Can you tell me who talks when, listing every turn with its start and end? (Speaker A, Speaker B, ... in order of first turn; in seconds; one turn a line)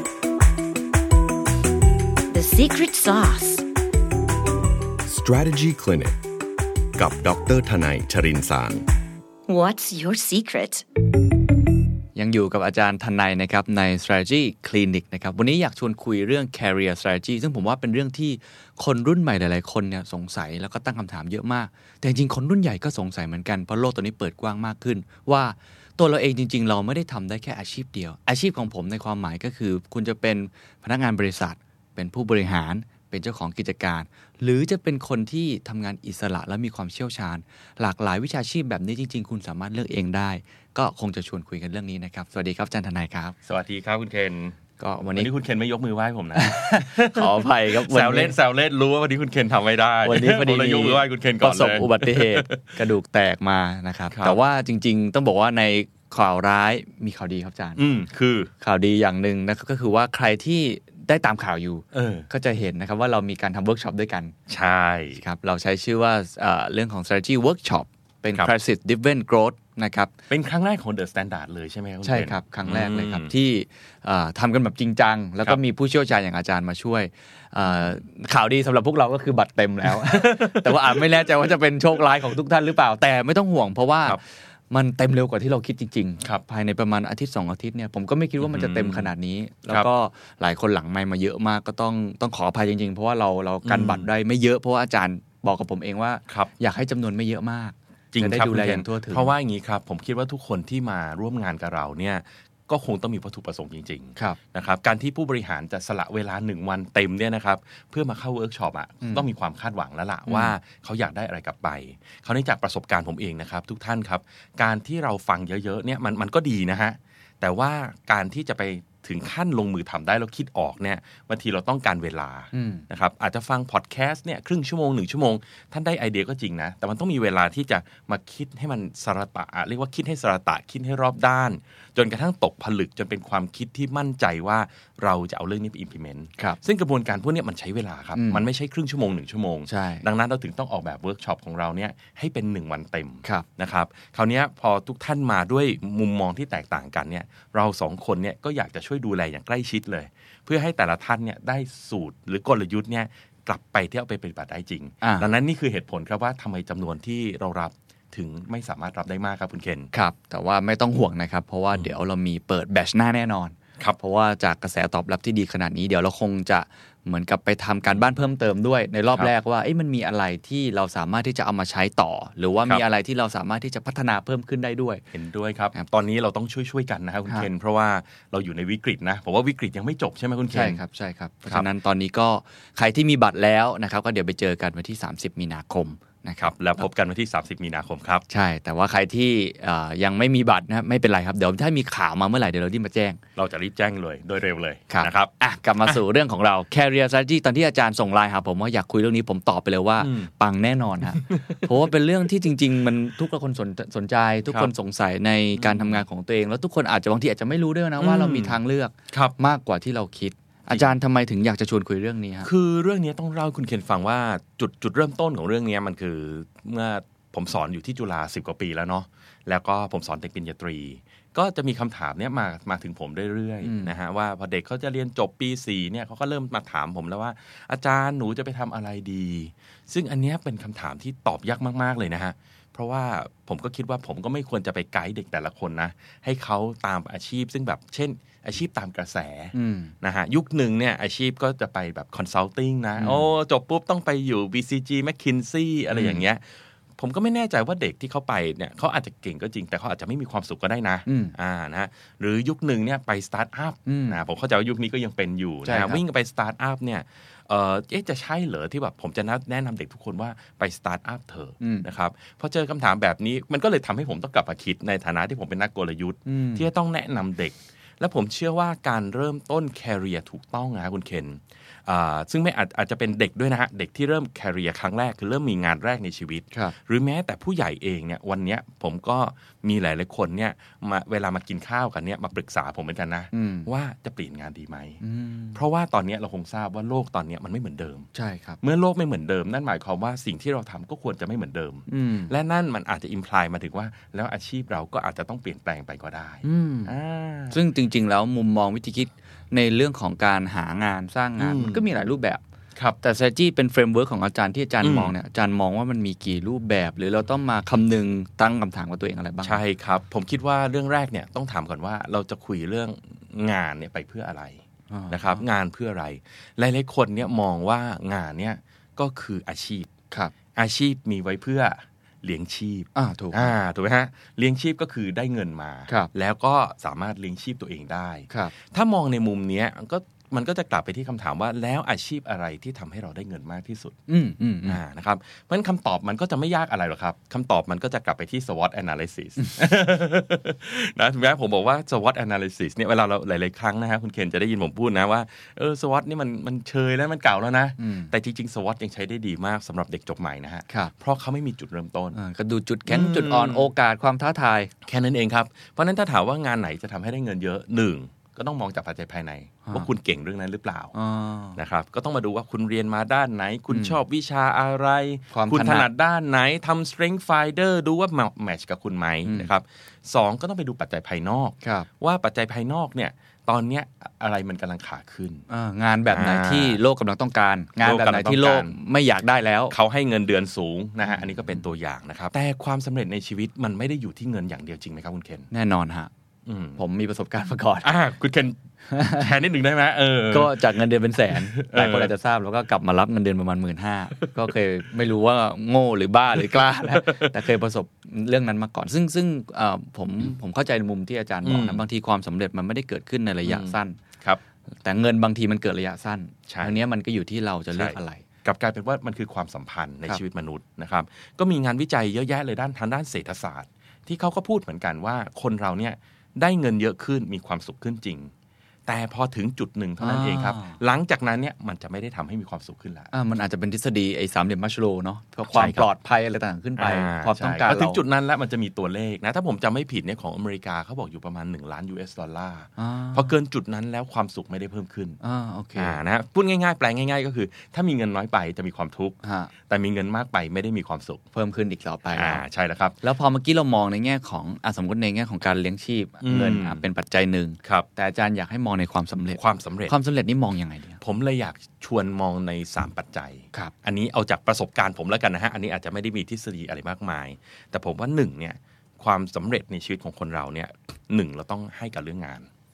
Speaker A: 2.3-3.6
Speaker B: 5.0-6.2
Speaker B: 6.9-8.8
Speaker A: 9.5-10.8
Speaker C: 12.2-43.4
Speaker D: 43.5-44.6
Speaker C: 44.8-45.3
Speaker D: 45.1-52.8
Speaker C: 46.3-48.4
Speaker C: 50.0-57.8
Speaker D: 54.1-54.4
Speaker D: 57.8-58.5
Speaker C: 58.6-64.3
Speaker D: 61.9-62.3
Speaker D: 64.5-65.2
Speaker C: 65.2-70.1
Speaker D: 70.3-73.3
Speaker C: 72.0-99.3
Speaker D: 79.8-81.3
Speaker D: 88.4-89.1
Speaker D: 93.6-94.1
Speaker D: 98.1-159.9
Speaker C: 109.0-109.3
Speaker C: 110.3-110.5
Speaker C: 122.5-122.8
Speaker C: 138.2-138.4
Speaker C: 139.7-140.0
Speaker C: 155.0-155.3
Speaker C: 159.9-175.0
Speaker D: 175.1-180.8
Speaker C: 180.5-186.5
Speaker D: 186.4-188.2
Speaker C: 188.3-193.2
Speaker D: 193.3-195.3
Speaker C: 194.9-212.5
Speaker D: 200.0-200.3
Speaker D: 201.1-201.9
Speaker D: 205.6-206.0
Speaker D: 208.0-208.6
Speaker D: 210.7-210.9
Speaker D: 212.4-246.4
Speaker C: 223.6-223.9
Speaker C: 239.5-239.9
Speaker C: 243.0-243.2
Speaker C: 245.9-246.2
Speaker D: 247.0-285.0
Speaker C: 251.1-251.3
Speaker C: 253.8-254.2
Speaker C: 255.6-256.0
Speaker C: 261.6-261.9
Speaker C: 266.2-266.7
Speaker C: 283.3-283.7
Speaker C: 285.0-285.6
Speaker D: 285.5-288.1
Speaker C: 288.1-288.6
Speaker D: 288.6-297.6
Speaker C: 291.9-292.3
Speaker C: 296.4-296.9
Speaker C: 297.5-302.4
Speaker D: 301.4-301.8
Speaker C: 303.0-309.6
Speaker D: 304.8-305.1
Speaker D: 309.4-319.9
Speaker C: 314.9-315.4
Speaker D: 320.5-333.9
Speaker C: 322.9-323.5
Speaker C: 334.1-334.8
Speaker D: 334.6-352.2
Speaker C: 347.8-348.1
Speaker C: 352.1-354.7
Speaker D: 352.9-353.7
Speaker D: 354.9-360.9
Speaker C: 360.9-361.6
Speaker D: 361.6-375.4
Speaker C: 363.7-363.9
Speaker C: 365.3-365.9
Speaker C: 371.6-371.9
Speaker C: 375.5-379.8
Speaker D: 376.1-376.8
Speaker D: 377.8-378.7
Speaker D: 379.7-385.5
Speaker C: 381.1-381.4
Speaker C: 385.5-386.1
Speaker D: 386.4-386.8
Speaker C: 386.8-387.9
Speaker D: 387.8-388.6
Speaker C: 388.9-389.3
Speaker D: 389.1-392.1
Speaker C: 390.3-404.0
Speaker D: 396.4-397.3
Speaker D: 401.4-401.8
Speaker D: 403.4-404.4
Speaker C: 404.8-408.2
Speaker D: 406.5-406.8
Speaker D: 407.7-418.3
Speaker D: 418.9-423.1
Speaker C: 420.0-420.8
Speaker C: 423.1-428.0
Speaker D: 425.5-425.9
Speaker D: 426.8-435.2
Speaker C: 432.8-433.3
Speaker C: 435.2-436.0
Speaker D: 435.8-441.2
Speaker C: 439.2-439.5
Speaker C: 441.3-442.4
Speaker D: 442.1-443.0
Speaker C: 443.0-451.0
Speaker D: 446.2-446.8
Speaker D: 449.4-449.9
Speaker D: 451.0-462.5